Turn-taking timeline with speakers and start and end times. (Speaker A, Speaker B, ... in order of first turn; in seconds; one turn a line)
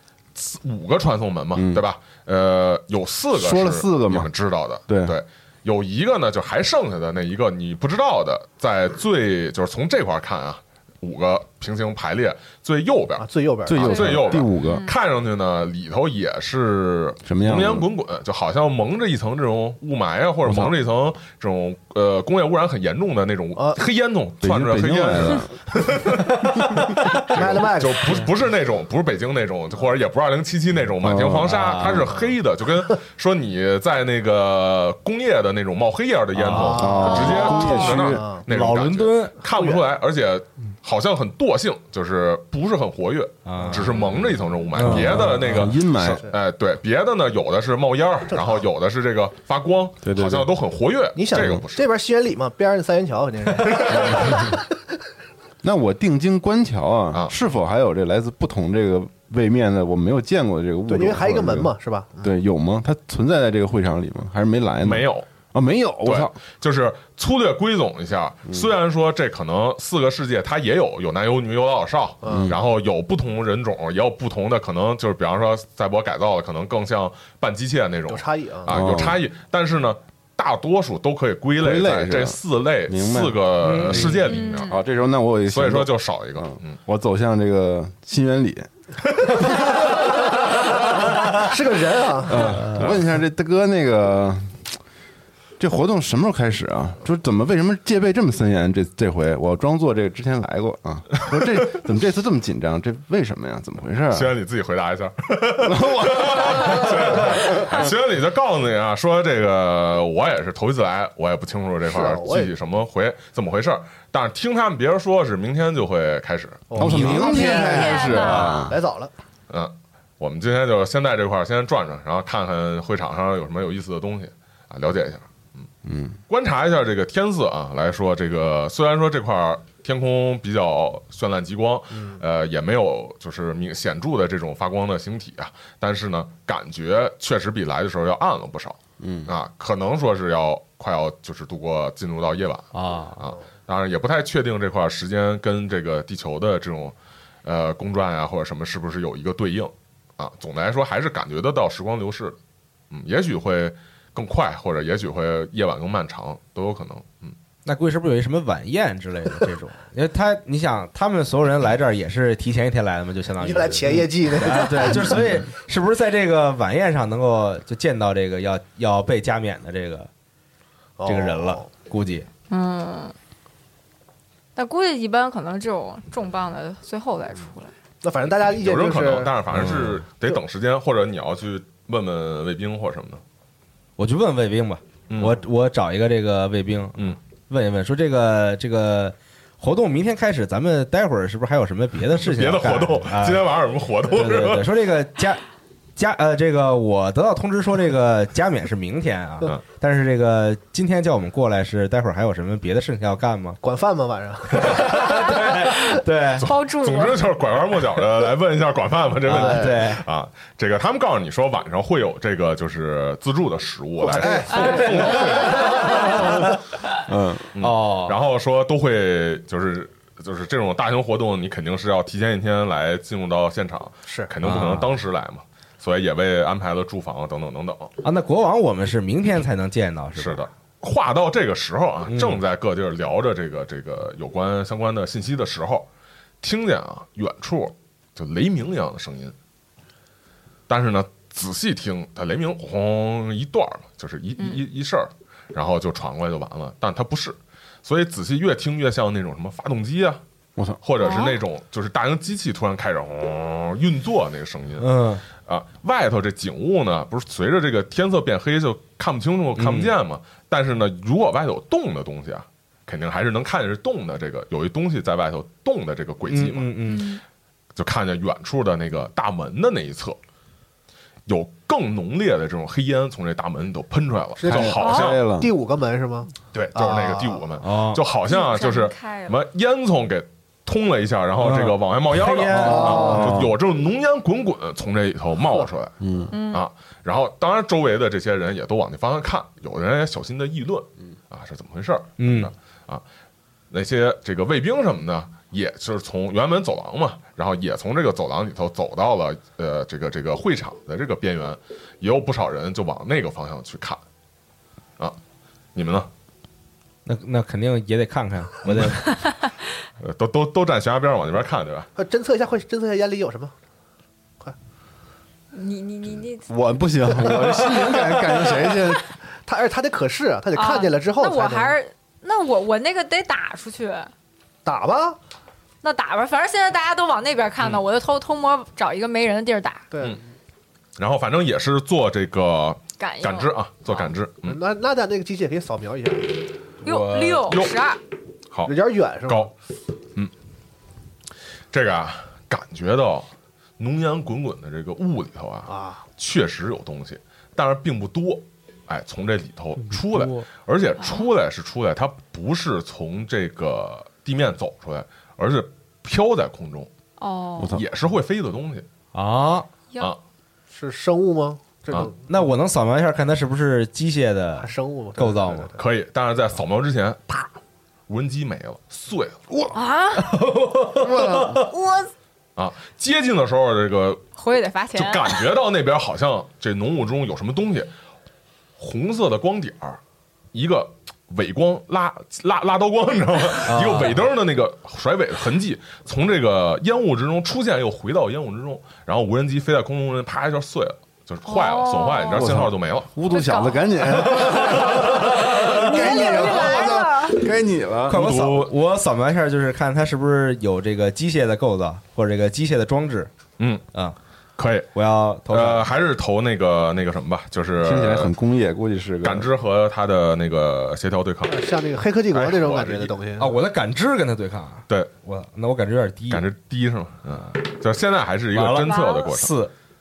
Speaker A: 0.4-51.9
Speaker B: 1.6-1.8
Speaker B: 3.3-4.3
Speaker B: 4.9-5.2
Speaker C: 13.2-14.4
Speaker B: 13.7-14.8
Speaker D: 13.8-14.9
Speaker B: 17.2-17.9
Speaker B: 20.4-20.7
Speaker C: 23.6-23.8
Speaker B: 24.4-25.5
Speaker C: 27.0-28.3
Speaker B: 31.0-32.1
Speaker E: 31.4-32.0
Speaker C: 32.1-32.4
Speaker E: 36.3-37.0
Speaker C: 36.5-38.4
Speaker B: 36.8-38.2
Speaker D: 37.0-38.0
Speaker E: 37.5-37.9
Speaker E: 38.5-39.3
Speaker C: 39.5-39.8
Speaker E: 43.5-44.0
Speaker C: 43.6-44.0
Speaker E: 44.8-45.7
Speaker B: 44.8-46.2
Speaker C: 48.3-48.6
Speaker B: 50.0-50.5
Speaker C: 51.2-54.7
Speaker A: 53.7-54.2
Speaker B: 54.0-54.4
Speaker B: 55.6-66.4
Speaker C: 60.9-62.3
Speaker A: 64.8-65.3
Speaker A: 66.0-84.7
Speaker C: 72.2-72.5
Speaker B: 72.3-72.6
Speaker C: 78.1-78.8
Speaker B: 78.7-79.2
Speaker B: 81.6-88.7
Speaker E: 83.6-84.3
Speaker D: 84.2-84.8
Speaker A: 85.5-86.8
Speaker C: 89.5-90.0
Speaker C: 91.4-92.6
Speaker B: 92.3-94.8
Speaker E: 92.4-92.8
Speaker B: 95.6-104.3
Speaker A: 101.2-101.5
Speaker A: 104.1-117.0
Speaker B: 105.6-107.9
Speaker C: 111.9-112.5
Speaker C: 116.7-119.1
Speaker B: 116.8-118.8
Speaker D: 117.0-118.7
Speaker A: 119.5-125.7
Speaker B: 125.8-126.2
Speaker A: 126.3-152.4
Speaker C: 131.9-132.2
Speaker B: 139.0-139.3
Speaker E: 142.7-143.3
Speaker A: 152.9-157.4
Speaker E: 157.7-170.1
Speaker C: 163.4-165.2
Speaker C: 171.0-171.7
Speaker E: 171.1-172.3
Speaker D: 172.5-173.1
Speaker D: 174.6-177.7
Speaker C: 178.0-179.3
Speaker A: 178.4-183.2
Speaker E: 184.0-193.4
Speaker A: 185.1-185.4
Speaker A: 192.2-194.7
Speaker E: 194.1-195.4
Speaker E: 196.0-203.6
Speaker C: 203.6-205.1
Speaker E: 204.5-206.5
Speaker D: 205.9-207.2
Speaker A: 206.4-216.3
Speaker E: 209.2-210.0
Speaker C: 209.3-209.9
Speaker C: 214.0-216.2
Speaker E: 214.2-216.6
Speaker D: 214.5-215.6
Speaker B: 217.1-217.5
Speaker A: 217.6-227.9
Speaker E: 217.6-218.2
Speaker C: 224.1-224.3
Speaker E: 224.4-224.9
Speaker E: 228.0-230.4
Speaker A: 230.2-235.9
Speaker E: 232.1-232.4
Speaker A: 236.4-239.3
Speaker A: 240.7-250.2
Speaker A: 250.8-266.8
Speaker D: 251.0-251.4
Speaker E: 254.8-255.2
Speaker E: 259.6-259.9
Speaker E: 266.3-267.1
Speaker D: 266.8-267.2
Speaker A: 267.8-270.2
Speaker A: 271.3-275.2
Speaker C: 274.4-277.4
Speaker B: 274.5-275.5
Speaker D: 274.8-275.1
Speaker A: 276.5-285.9
Speaker E: 277.6-278.0
Speaker D: 278.3-279.4
Speaker E: 281.4-283.3
Speaker C: 282.5-283.4
Speaker B: 282.6-283.5
Speaker B: 286.0-286.3
Speaker D: 286.3-286.7
Speaker A: 286.5-293.0
Speaker E: 292.2-292.5
Speaker A: 293.7-304.0
Speaker A: 305.8-306.1
Speaker E: 307.1-309.1
Speaker A: 308.7-308.9
Speaker A: 310.0-311.9
Speaker C: 312.0-313.5
Speaker D: 315.5-316.5
Speaker B: 316.5-319.1
Speaker D: 317.1-317.7
Speaker C: 317.5-321.8
Speaker D: 320.5-324.1
Speaker C: 324.6-325.2
Speaker D: 325.8-329.9
Speaker C: 329.9-330.2
Speaker A: 331.0-334.6
Speaker D: 333.0-333.5
Speaker C: 333.9-336.4
Speaker E: 336.8-337.6
Speaker D: 336.8-338.0
Speaker A: 337.5-337.7
Speaker C: 338.7-339.5
Speaker A: 339.3-339.5
Speaker A: 341.7-343.3
Speaker A: 343.8-356.9
Speaker C: 345.7-346.0
Speaker E: 349.9-350.5
Speaker D: 351.0-351.3
Speaker D: 357.2-357.8
Speaker B: 357.6-357.8
Speaker A: 357.7-358.9
Speaker E: 359.1-359.7
Speaker C: 360.7-362.2
Speaker E: 362.3-365.7
Speaker C: 364.6-365.8
Speaker A: 365.8-367.5
Speaker A: 368.1-369.4
Speaker D: 369.7-370.4
Speaker E: 370.2-371.7
Speaker B: 371.0-371.6
Speaker D: 371.7-372.1
Speaker A: 372.6-374.2
Speaker D: 374.4-375.4
Speaker A: 374.9-377.9
Speaker A: 378.8-380.0
Speaker A: 380.5-393.1
Speaker E: 383.7-384.2
Speaker D: 391.5-392.5
Speaker B: 392.3-398.3
Speaker D: 393.3-394.9
Speaker E: 394.4-395.9
Speaker D: 395.7-397.4
Speaker E: 398.1-403.3
Speaker A: 398.1-398.7
Speaker A: 403.6-403.8
Speaker A: 404.6-404.9
Speaker E: 404.9-405.9
Speaker A: 405.5-408.3
Speaker B: 407.8-409.5
Speaker A: 409.2-411.6
Speaker C: 411.5-413.5
Speaker A: 412.3-413.1
Speaker E: 413.4-416.4
Speaker A: 416.3-419.5
Speaker E: 418.5-419.7
Speaker D: 418.8-419.4